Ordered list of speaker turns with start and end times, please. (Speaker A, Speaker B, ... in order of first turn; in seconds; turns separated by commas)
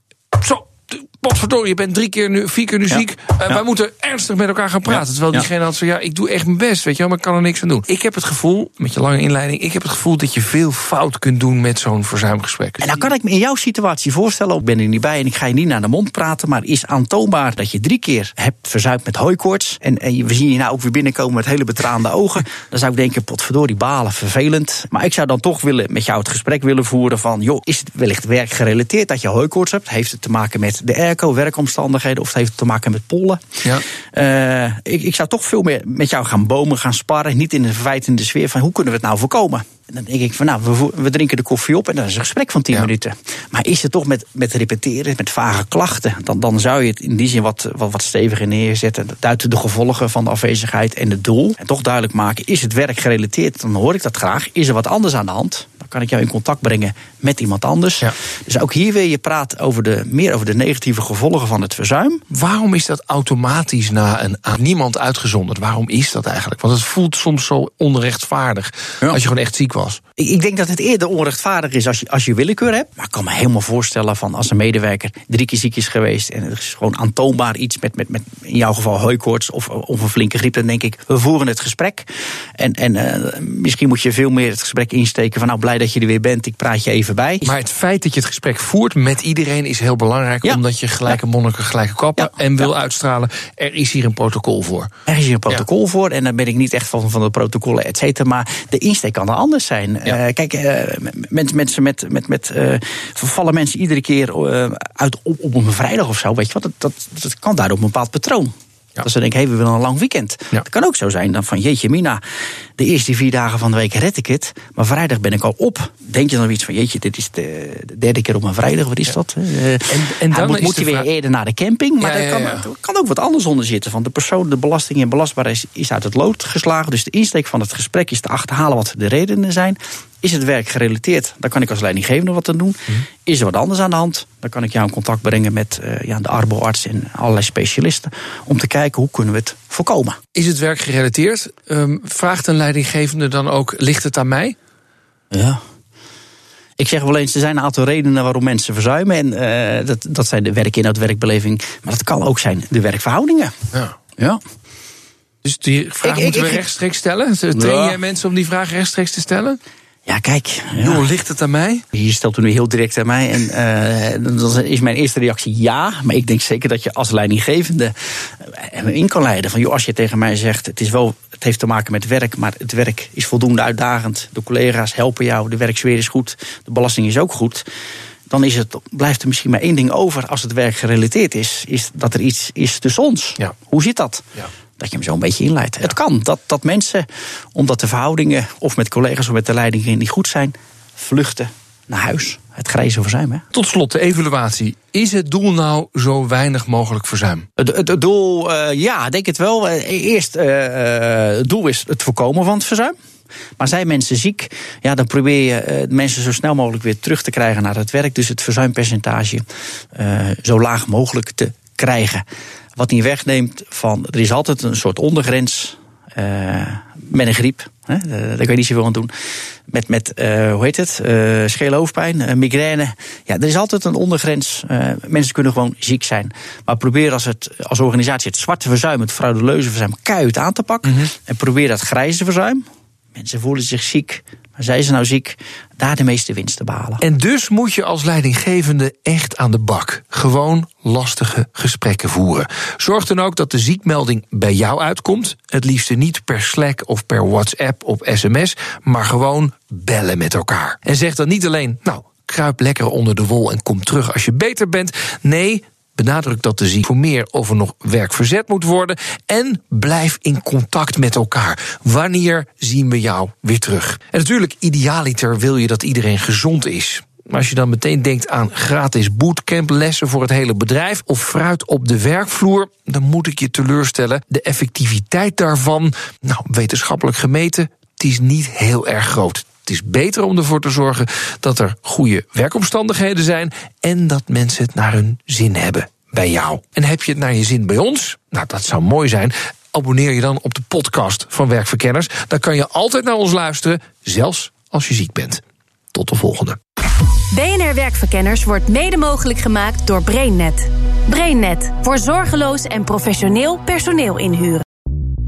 Speaker A: 0.3-13.0, Speaker B: 2.9-3.6, Speaker B: 4.9-5.5, Speaker B: 12.8-62.2, Speaker A: 62.3-70.0, Speaker B: 70.2-87.5, Speaker A: 87.4-94.9, Speaker B: 90.4-91.2, Speaker B: 92.2-92.7, Speaker B: 95.1-112.2, Speaker B: 112.8-140.2, Speaker A: 119.9-121.1, Speaker A: 122.0-122.7, Speaker A: 140.3-144.6, Speaker B: 145.3-145.6, Speaker B: 146.8-153.5, Speaker A: 155.4-159.6, Speaker B: 156.0-156.6, Speaker B: 157.5-158.0, Speaker B: 160.1-161.0, Speaker A: 160.8-161.8, Speaker B: 161.9-177.7, Speaker B: 178.3-184.2, Speaker B: 184.8-193.4, Speaker A: 193.5-197.5, Speaker B: 197.6-202.9, Speaker B: 203.6-212.2, Speaker B: 212.8-219.1, Speaker B: 219.7-237.0, Speaker A: 237.0-295.4, Speaker A: 295.9-296.6, Speaker C: 297.3-304.6